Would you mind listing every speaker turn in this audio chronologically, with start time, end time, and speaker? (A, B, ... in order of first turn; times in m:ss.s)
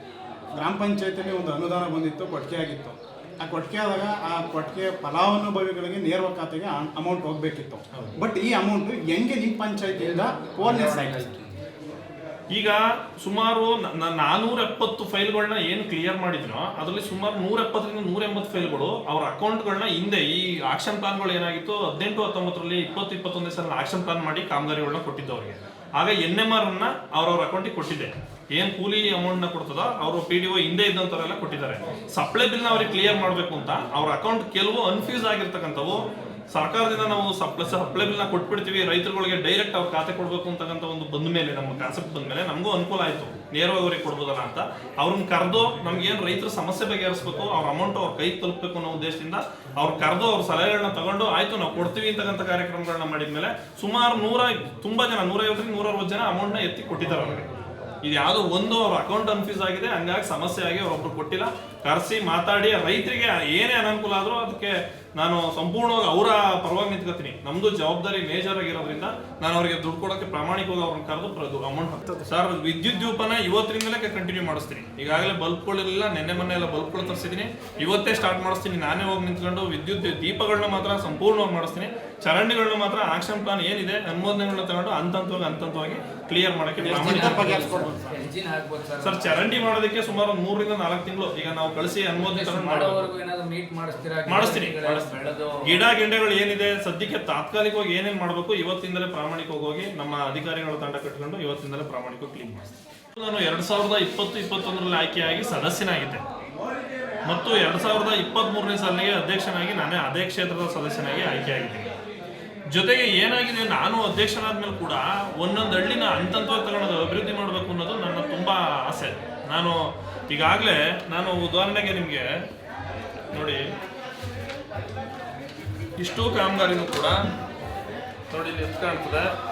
0:00.6-0:11.3 A
0:10.0-0:11.5 B
0:12.5-0:57.4 C
0:58.0-1:27.6 C
1:26.8-1:28.2 A
1:27.0-1:29.6 B
1:29.0-1:33.1 C
1:32.2-1:35.8 B
1:34.3-1:46.2 C
1:47.3-1:51.9 C
1:52.7-2:02.2 C
2:03.3-2:03.6 C
2:06.0-2:07.2 C
2:08.3-2:09.3 C